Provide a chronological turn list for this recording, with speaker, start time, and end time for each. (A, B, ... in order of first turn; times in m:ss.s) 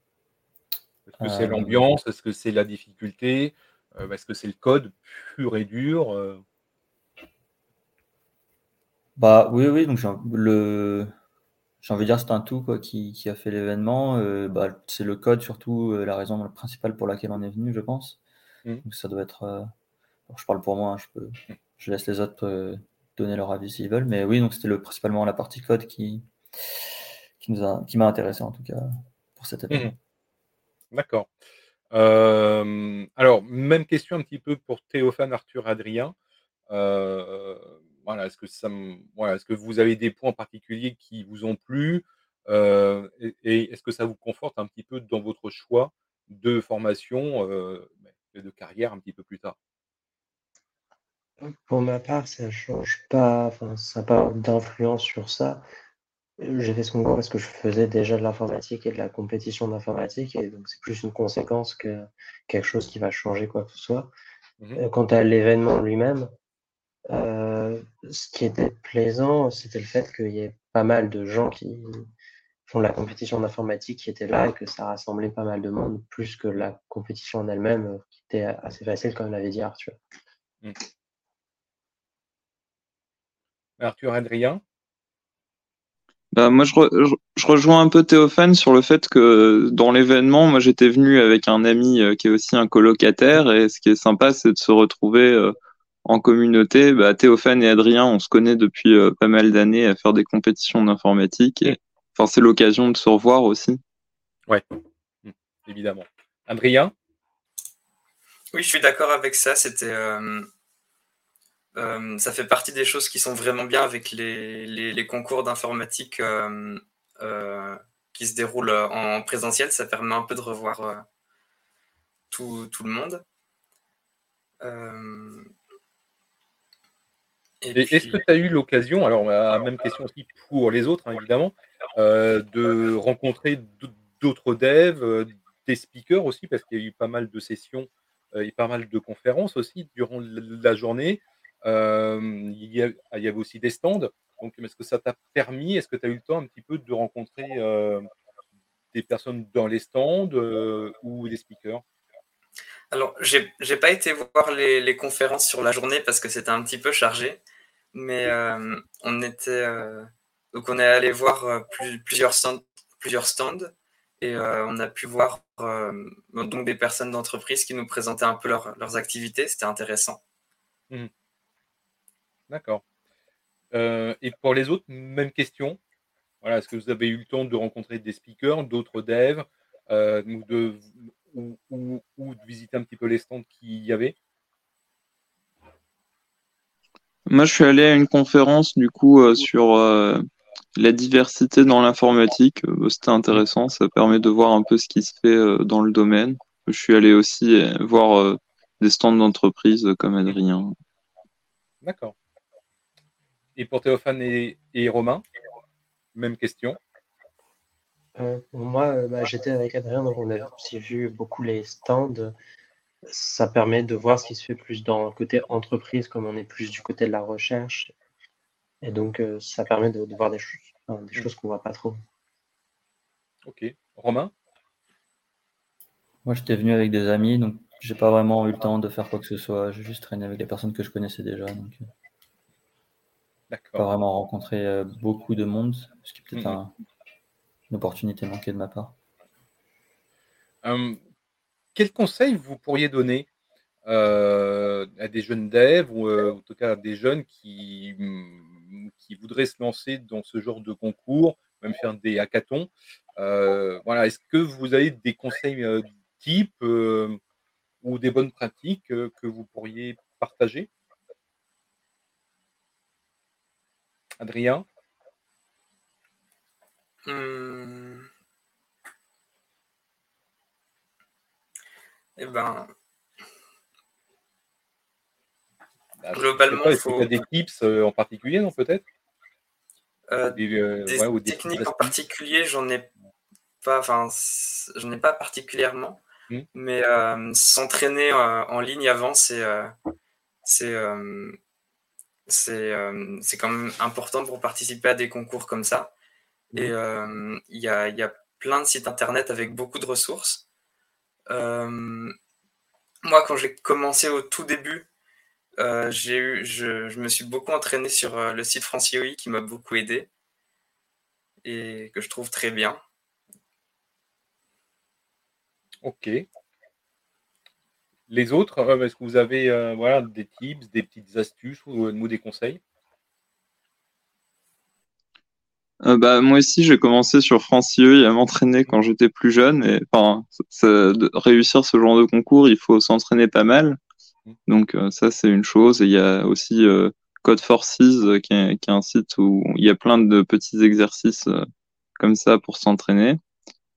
0:01.1-0:06.4 A
0:01.2-0:01.9 B
0:09.2-0:11.1 B
0:11.8-0:18.2 B
0:18.8-0:19.7 B
0:20.3-0:26.8 B
0:27.4-0:29.9 B
0:30.9-0:31.3 A
0:31.9-0:36.1 A
0:36.7-0:49.5 A
0:51.4-0:55.6 C
0:56.4-1:04.1 C
1:04.8-1:06.3 C
1:07.1-1:12.0 C
1:12.7-1:20.0 C
1:23.8-1:24.6 A
1:26.3-1:43.8 D
1:45.2-1:46.9 A
1:48.5-1:50.5 E
1:51.7-2:01.0 E
2:02.3-2:03.2 E
2:04.6-2:05.5 E
2:07.6-2:08.2 E
2:07.7-2:28.0 A
2:28.9-2:31.8 A
2:32.9-2:37.4 E
2:37.9-2:50.2 E
2:52.5-2:52.8 A
2:53.7-2:55.8 A
2:56.4-3:04.2 A
3:07.3-3:10.2 D
3:10.8-3:20.7 D
3:21.8-3:22.1 A
3:23.5-3:25.2 A
3:26.1-3:26.8 A
3:28.2-3:32.3 C
3:33.1-3:37.9 C
3:38.8-3:42.0 C
3:43.4-3:44.3 A
3:46.2-3:51.8 B
3:53.5-3:53.8 A
3:53.8-3:56.7 B
3:56.3-3:56.6 A
3:57.7-3:58.9 B
4:00.6-4:01.0 A
4:01.7-4:03.3 A
4:03.8-4:17.2 A
4:17.8-4:20.7 A
4:24.2-4:24.6 A
4:27.0-4:28.1 E
4:32.2-4:32.7 E
4:36.0-4:38.8 A
4:36.1-4:37.1 E
4:40.1-4:42.9 E
4:40.4-4:41.9 A
4:43.6-4:46.0 E
4:46.5-4:49.7 E
4:50.4-4:51.4 E
4:52.3-4:55.9 E
4:56.5-5:00.4 E
5:01.3-5:02.1 E
5:03.0-5:04.9 E
5:05.6-5:10.1 E
5:11.4-5:12.8 E
5:15.8-5:16.2 A
5:18.1-5:22.6 A
5:25.8-5:33.8 D
5:34.5-5:41.4 D
5:42.0-5:43.2 D